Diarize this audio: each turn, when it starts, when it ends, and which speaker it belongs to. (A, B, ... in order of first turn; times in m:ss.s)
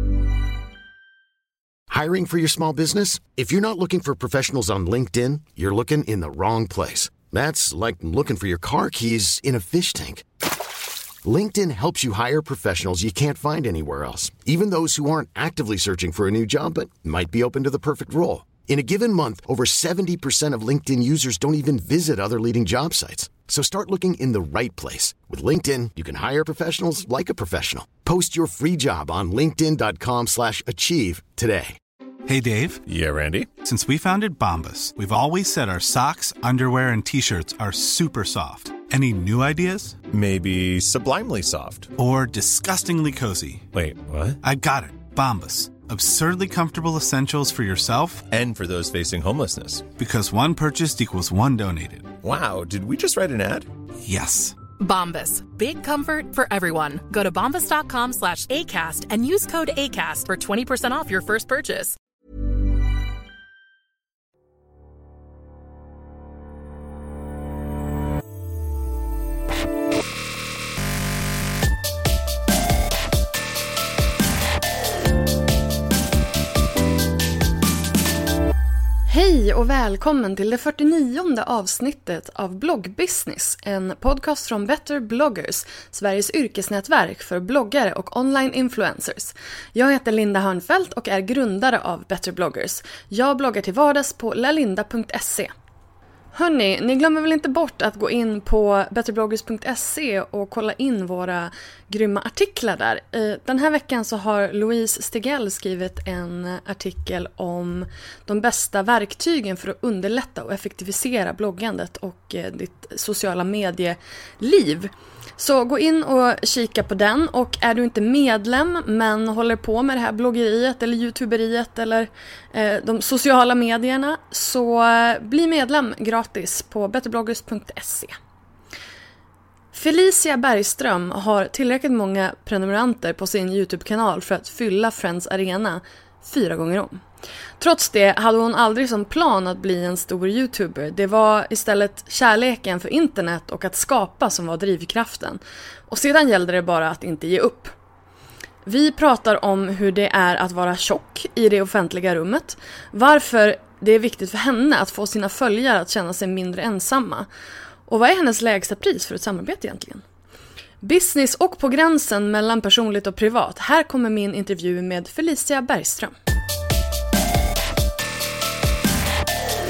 0:01.9-0:10.2 A
0:11.2-0:31.8 A
0:32.3-0:32.8 B
0:32.8-0:33.5 C
0:33.6-0:40.0 B
0:40.1-0:41.9 C
0:42.0-0:43.7 B
0:43.7-0:44.4 C
0:44.4-0:48.2 B
0:48.3-0:49.8 C
0:50.0-0:52.1 B
0:52.2-0:53.7 C
0:54.0-0:54.6 B
0:54.8-1:02.0 D
1:19.1-1:35.5 E
1:36.3-2:08.2 E
2:09.7-2:17.0 E
2:17.6-2:27.7 E
2:28.6-2:37.3 E
2:37.8-2:40.0 E
2:40.8-2:46.1 E